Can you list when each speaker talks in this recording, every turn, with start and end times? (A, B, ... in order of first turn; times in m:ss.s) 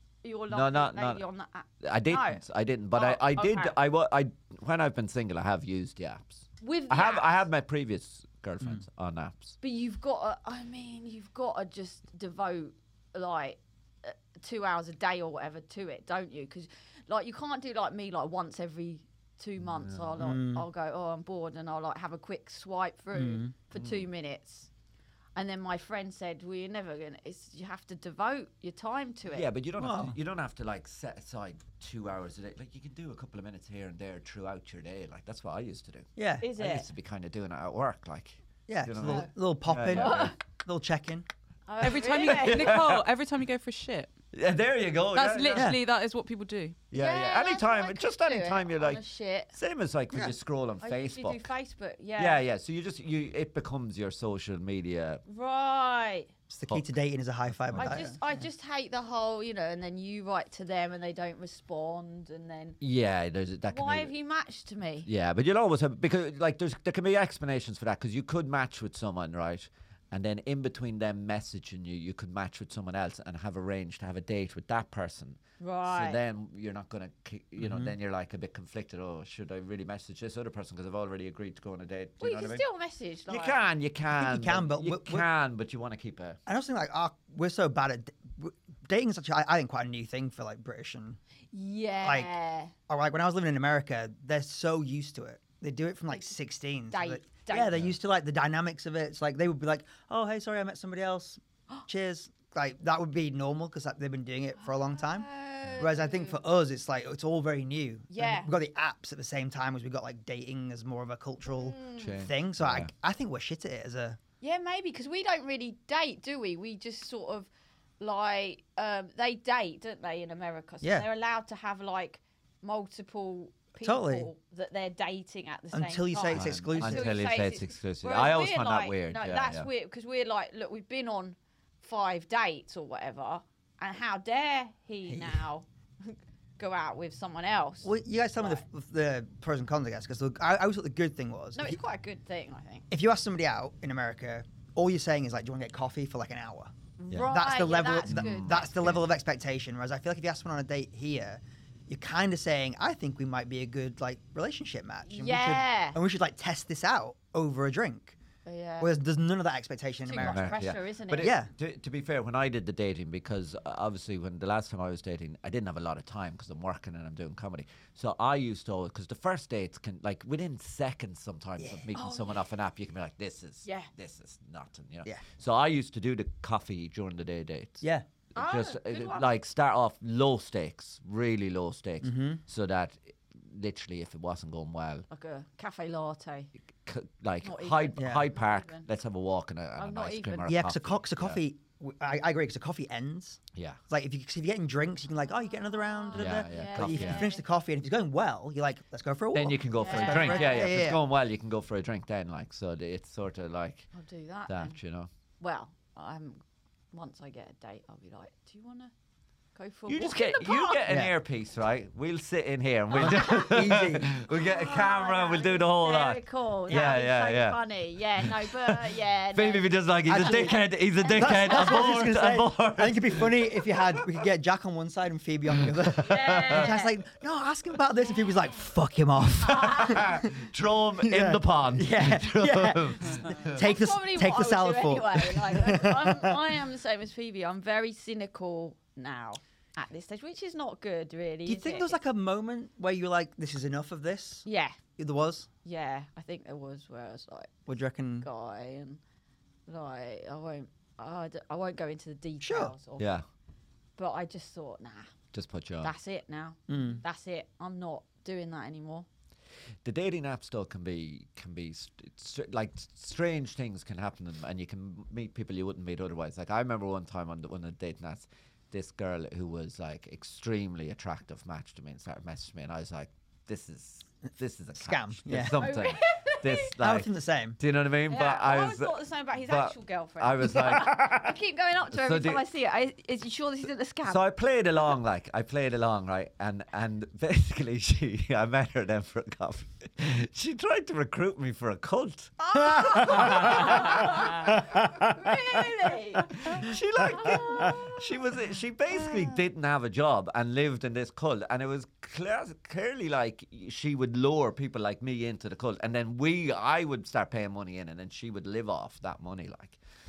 0:00.2-0:02.4 A
0:00.5-0:01.2 B
0:01.8-0:09.6 B
0:02.9-0:03.8 A
0:06.6-0:07.4 A
0:09.6-0:24.7 A
0:19.8-0:20.1 B
0:20.2-0:20.6 C
0:23.1-0:23.5 C
0:23.8-0:24.1 B
0:25.4-0:29.5 A
0:29.3-0:40.3 B
0:29.8-0:30.2 C
0:36.2-0:36.5 C
0:36.4-0:36.9 A
0:38.7-0:41.3 C
0:39.9-0:40.4 A
0:41.7-0:42.9 A
0:41.8-0:44.1 D
0:42.2-0:43.0 B
0:44.3-0:45.7 B
0:45.1-0:46.8 D
0:46.9-0:49.0 B
0:46.9-0:49.5 A
0:49.5-0:51.4 B
0:50.8-0:52.4 A
0:52.2-0:55.2 B
0:55.3-0:56.3 A
0:56.5-0:58.1 C
0:57.6-0:58.2 B
0:57.8-1:02.8 A
1:02.8-1:04.1 B
1:03.7-1:05.1 A
1:05.0-1:22.6 B
1:15.6-1:16.2 A
1:17.6-1:17.9 C
1:22.2-1:23.6 A
1:23.3-1:26.4 B
1:24.1-1:25.3 C
1:26.5-1:31.2 C
1:31.5-1:32.7 A
1:32.0-1:32.3 C
1:32.9-1:54.2 C
1:36.9-1:37.7 A
1:44.9-1:46.4 A
1:48.1-1:48.5 A
1:51.5-1:52.2 A
1:52.0-1:52.9 B
1:54.4-1:57.5 A
1:58.0-2:18.6 A
2:00.8-2:01.1 C
2:03.8-2:04.3 C
2:05.7-2:07.1 C
2:06.3-2:09.7 B
2:15.1-2:15.4 C
2:17.8-2:21.8 C
2:21.6-2:22.9 A
2:22.9-2:26.7 C
2:27.0-2:29.0 A
2:27.3-2:38.2 C
2:28.1-2:28.7 B
2:35.0-2:36.0 A
2:38.4-2:39.0 A
2:38.8-2:40.5 C
2:40.0-2:41.4 A
2:40.2-3:05.1 B
2:41.2-2:41.5 C
2:51.6-2:51.8 C
2:51.9-2:52.4 A
2:53.6-2:53.9 A
2:58.4-2:59.3 A
3:02.0-3:02.4 C
3:05.1-3:06.5 A
3:06.9-3:11.4 B
3:07.4-3:08.9 A
3:08.0-3:08.3 C
3:09.8-3:10.5 A
3:10.5-3:21.0 C
3:13.6-3:13.8 B
3:15.9-3:17.4 A
3:16.1-3:17.3 B
3:19.3-3:23.9 B
3:19.8-3:20.8 A
3:23.9-3:24.8 A
3:24.5-3:25.1 B
3:25.4-3:28.9 A
3:29.6-3:30.8 A
3:29.9-3:37.6 B
3:30.9-3:31.1 C
3:33.0-3:34.1 C
3:34.3-3:41.9 A
3:36.7-3:37.0 C
3:38.2-3:38.8 B
3:39.3-3:44.0 B
3:40.1-3:40.6 C
3:41.1-3:50.3 C
3:45.6-3:46.8 B
3:46.0-3:46.9 A
3:49.4-3:53.6 B
3:49.5-3:50.1 A
3:51.0-3:56.4 C
3:53.5-4:02.0 A
4:01.5-4:04.4 C
4:04.4-4:04.8 A
4:05.0-4:05.5 C
4:05.6-4:07.5 A
4:07.7-4:08.3 C
4:08.2-4:09.0 A
4:09.7-4:13.1 A
4:12.4-4:12.8 C
4:13.0-4:13.2 B
4:14.0-4:15.1 A
4:15.3-4:15.9 B
4:15.8-4:19.1 A
4:16.7-4:17.0 C
4:19.8-4:41.3 B
4:34.8-4:35.7 C
4:35.6-4:36.7 A
4:36.8-4:37.6 C
4:38.1-4:44.2 A
4:41.9-4:42.4 B
4:44.1-4:54.1 B
4:52.4-4:58.0 A
4:52.7-4:55.3 C
4:56.4-5:09.8 B
4:56.4-4:57.8 C